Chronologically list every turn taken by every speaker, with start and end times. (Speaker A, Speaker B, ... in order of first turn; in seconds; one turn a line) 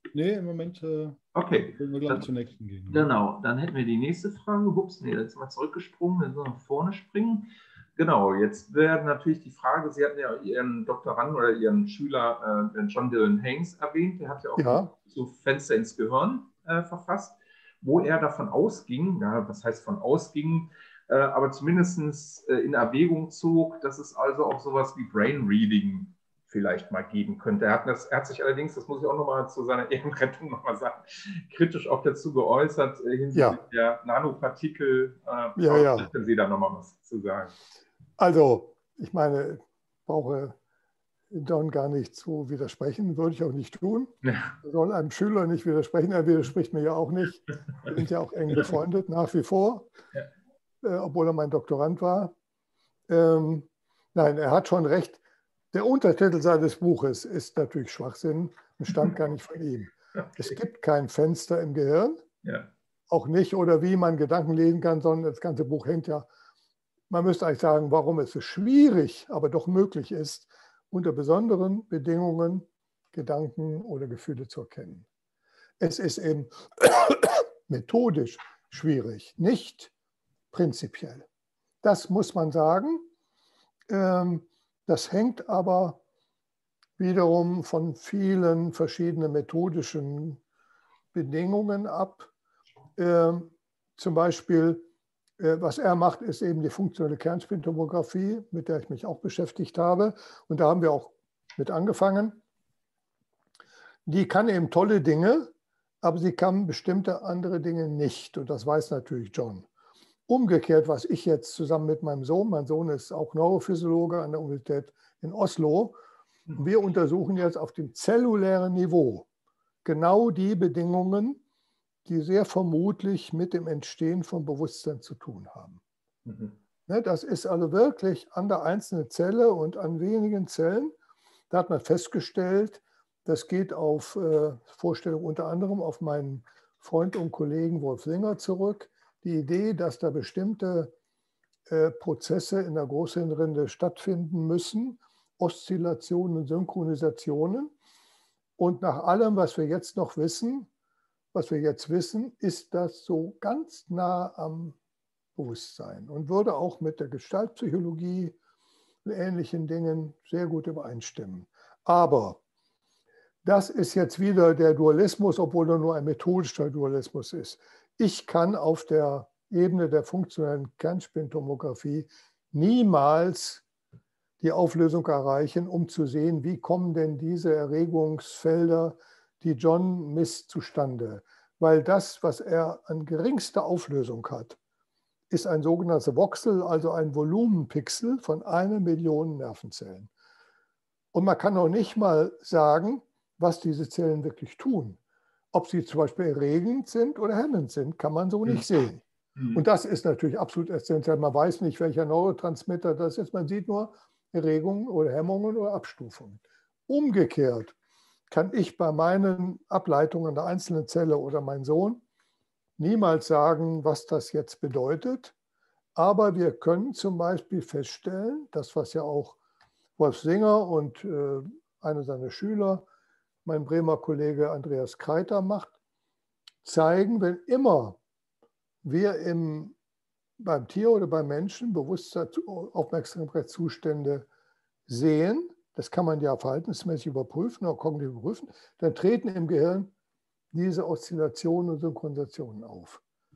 Speaker A: 0.1-3.1
Speaker B: 1.3-2.3
Speaker B: 2.9-37.5
Speaker C: 14.6-14.9
Speaker C: 33.3-33.6
Speaker C: 35.6-36.1
Speaker C: 38.2-40.6
Speaker C: 41.3-49.9
Speaker B: 44.2-44.5
Speaker C: 50.8-52.3
Speaker C: 53.1-55.2
Speaker C: 55.7-62.2
Speaker B: 62.4-62.7
Speaker C: 63.1-66.3
Speaker C: 67.1-75.1
Speaker C: 75.8-79.9
Speaker C: 80.5-81.3
Speaker C: 81.8-83.1
Speaker C: 83.9-86.0
Speaker C: 87.0-90.4
Speaker C: 91.1-92.3
Speaker C: 93.0-94.9
Speaker C: 95.4-102.4
Speaker C: 104.1-109.7
Speaker C: 110.3-116.0
Speaker C: 116.6-119.3
Speaker C: 119.8-121.4
Speaker C: 122.1-125.8
Speaker B: 126.3-126.5
Speaker C: 126.9-130.9
Speaker C: 131.5-140.9
Speaker C: 141.7-147.7
Speaker C: 148.6-150.7
Speaker C: 151.3-154.8
Speaker C: 155.4-158.4
Speaker C: 159.1-162.4
Speaker C: 163.4-173.6
Speaker C: 174.4-184.6
Speaker C: 185.3-190.1
Speaker C: 191.1-195.0
Speaker C: 195.5-199.0
Speaker B: 199.4-199.6
Speaker C: 199.5-207.8
Speaker C: 208.3-212.0
Speaker C: 212.8-215.3
Speaker C: 215.9-219.4
Speaker C: 220.0-222.9
Speaker C: 223.4-225.8
Speaker C: 226.6-228.0
Speaker C: 228.8-229.8
Speaker C: 230.4-234.3
Speaker C: 234.9-239.9
Speaker C: 240.5-243.0